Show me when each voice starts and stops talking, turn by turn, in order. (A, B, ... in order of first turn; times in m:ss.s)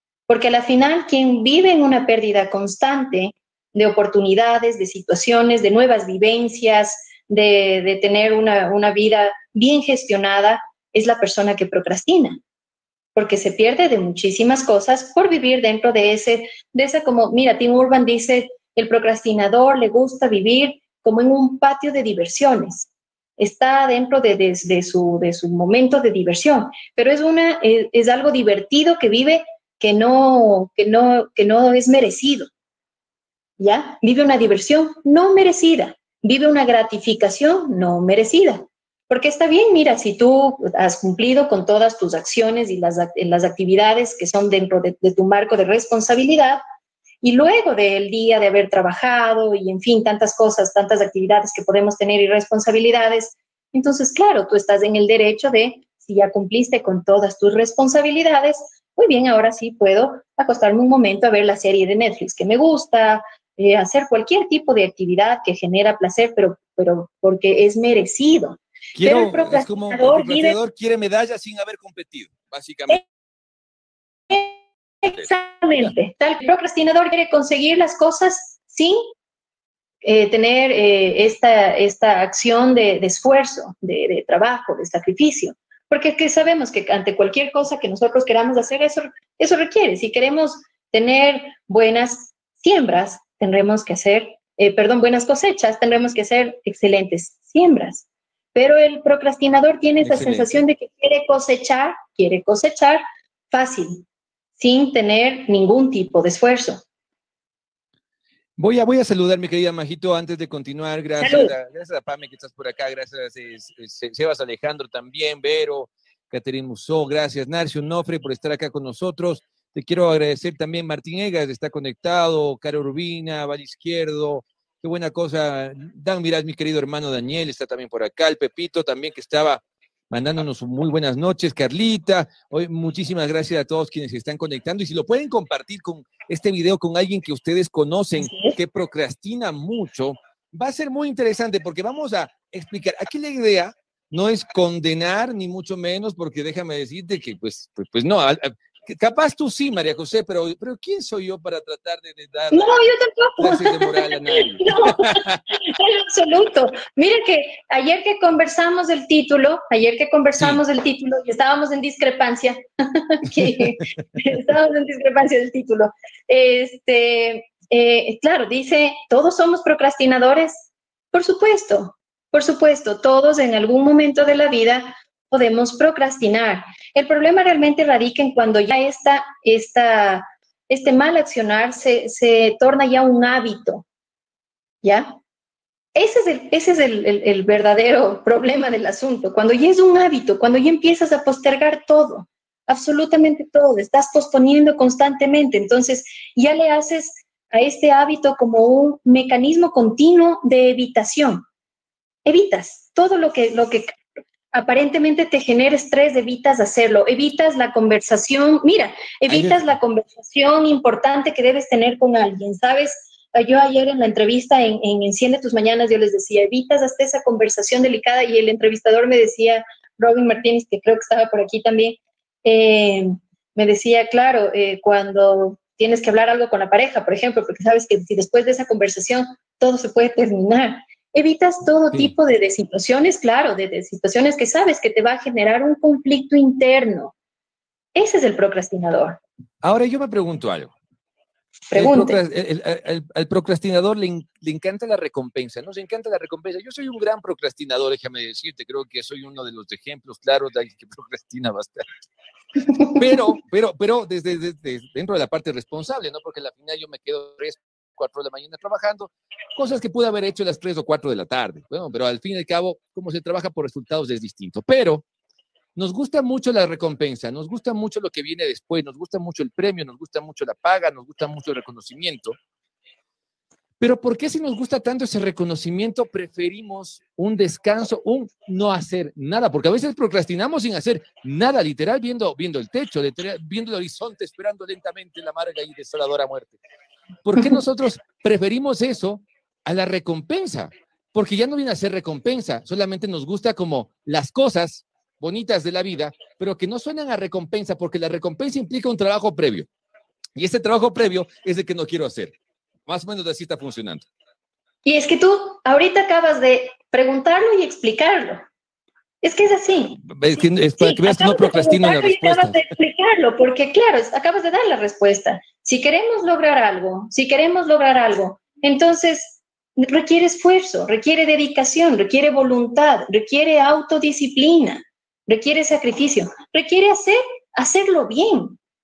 0:00.3-0:12.4 A
0:13.1-0:32.5 A
0:33.6-0:46.6 A
0:47.2-1:10.6 A
1:08.9-1:13.0 B
1:15.0-1:19.0 A
1:15.1-1:15.9 B
1:20.0-1:44.0 A
1:40.0-1:40.6 B
1:44.6-1:46.8 A
1:48.6-2:32.7 B
1:51.2-1:51.5 A
2:18.2-2:18.5 A
2:32.5-3:03.8 A
2:33.4-2:35.4 B
3:04.8-3:05.1 A
3:05.9-3:21.4 A
3:22.2-3:24.0 A
3:24.5-3:57.1 A
3:29.3-3:29.7 B
3:57.9-3:59.2 A
3:59.6-4:00.7 B
4:01.7-4:02.2 A
4:01.7-4:11.8 B
4:12.7-4:13.1 A
4:12.9-4:25.0 B
4:25.8-4:32.4 B
4:33.8-4:46.6 B
4:47.2-4:59.7 B
5:00.4-5:02.4 B
5:02.9-5:04.0 B
5:04.8-5:08.4 A
5:09.2-5:28.6 A
5:10.0-5:12.6 B